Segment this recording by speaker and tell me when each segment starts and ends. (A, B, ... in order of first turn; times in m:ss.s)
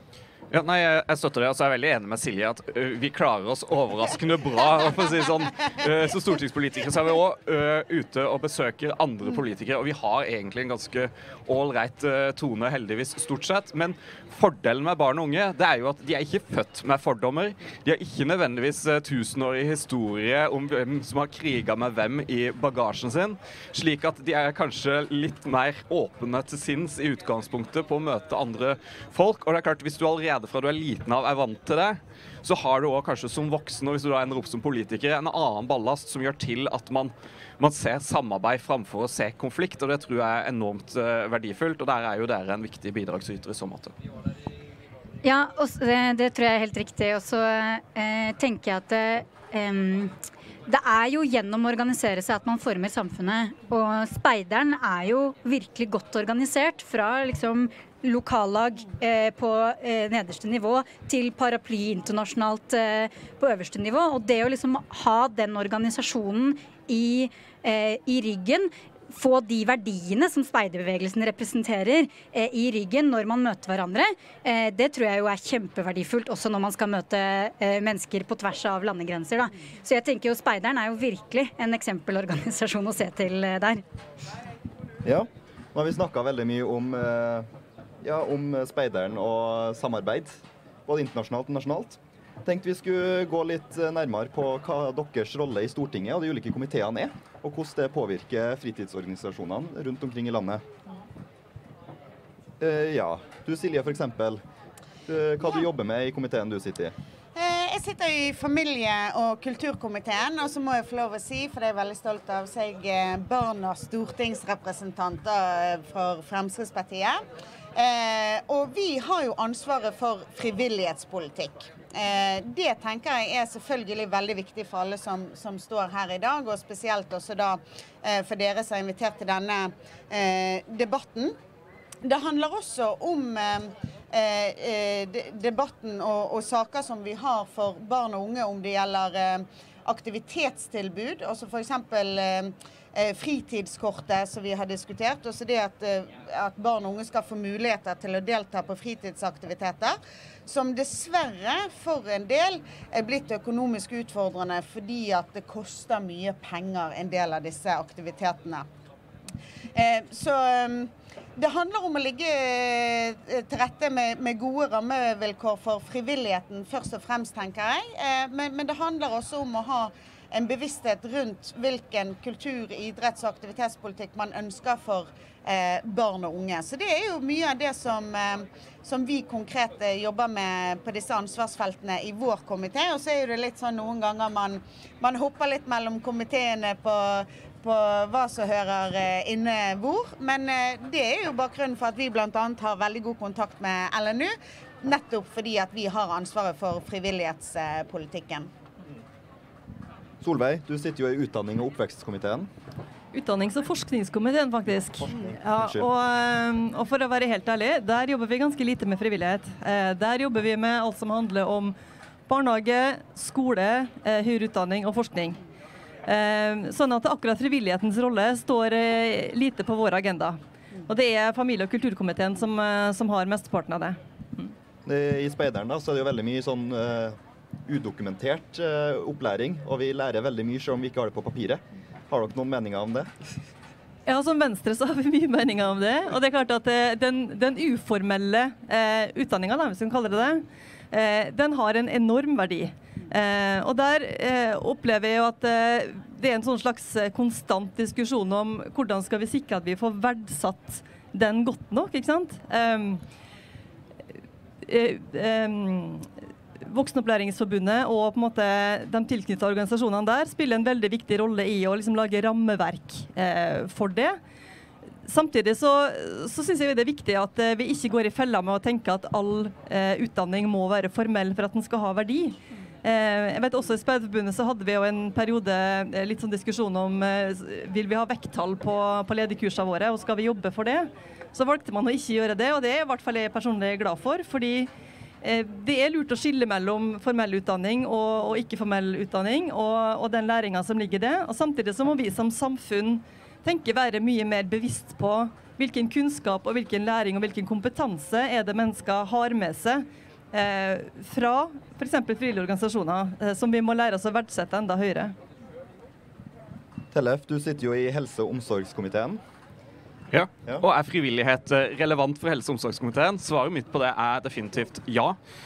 0:00.5-0:43.9 A
0:45.2-0:50.2 B
0:50.7-1:23.8 B
1:25.0-1:27.5 C
1:28.0-1:40.6 C
1:42.6-1:44.4 C
1:45.1-1:46.9 C
1:47.3-1:57.2 D
1:57.7-2:11.4 D
2:12.0-2:38.7 D
2:39.7-3:18.5 D
3:20.2-3:22.5 C
3:23.1-3:31.7 E
3:25.0-3:25.9 C
3:32.3-3:35.4 E
3:36.0-3:44.5 E
3:44.8-3:53.3 C
3:54.0-4:13.0 E
4:14.6-4:16.1 E
4:16.6-4:24.2 E
4:25.0-4:44.7 E
4:45.2-5:05.1 E
5:06.9-5:09.2 C
5:10.1-5:15.2 A